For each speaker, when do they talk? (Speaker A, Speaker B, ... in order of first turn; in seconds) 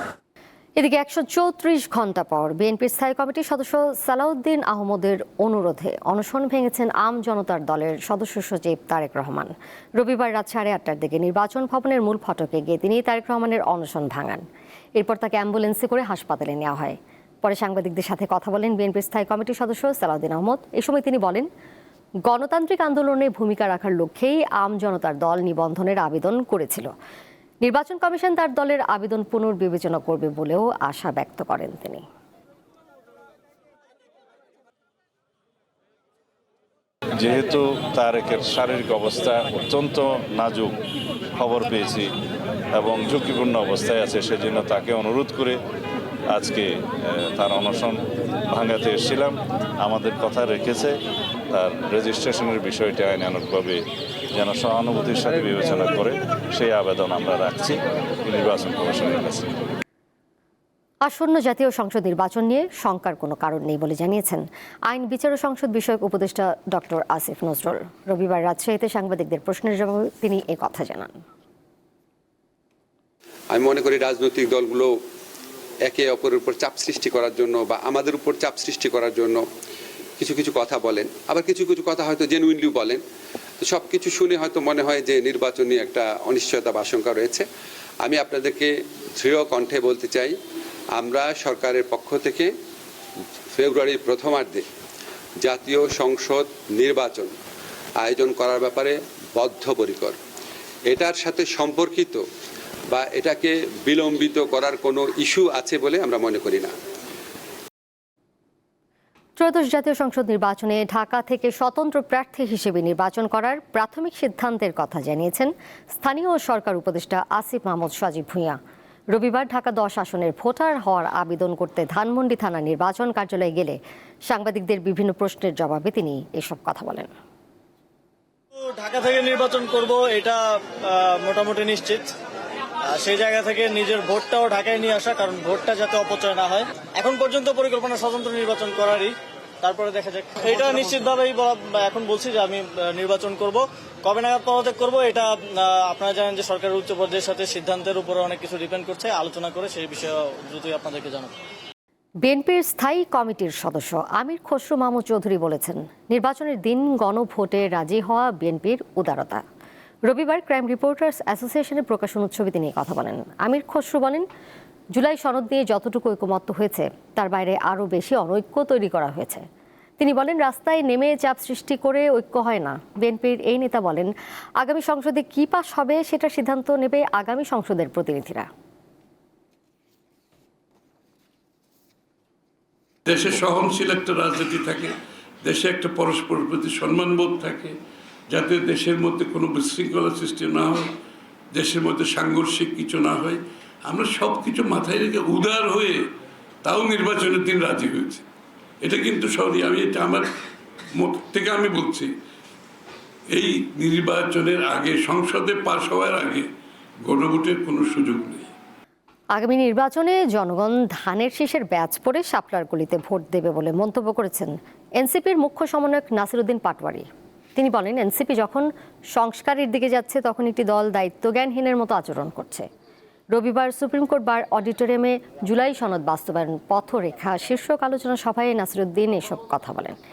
Speaker A: 0.8-21.5, 22.3-26.9, 27.6-32.0, 61.0-71.2, 109.4-118.6, 119.1-127.1, 152.2-159.4, 160.1-164.2, 164.9-169.4, 170.0-178.5, 209.3-222.7, 223.3-230.0
Speaker B: 37.1-40.7, 41.4-42.1, 42.7-45.6, 46.3-51.0, 51.5-53.8, 54.3-59.5, 183.1-184.6, 205.1-205.6, 207.1-208.3
Speaker C: 73.5-74.9, 75.9-79.4, 80.2-83.0, 83.6-87.5, 88.0-90.3, 91.0-92.5, 93.5-94.6, 95.4-97.3, 98.0-100.2, 100.9-102.2, 102.9-106.7
Speaker D: 128.7-132.1, 132.9-139.1, 139.6-151.3
Speaker E: 185.7-186.2, 186.7-187.6, 188.6-190.6, 191.6-193.3, 194.1-195.8, 196.8-198.1, 199.0-200.1, 201.4-201.9, 204.2-206.3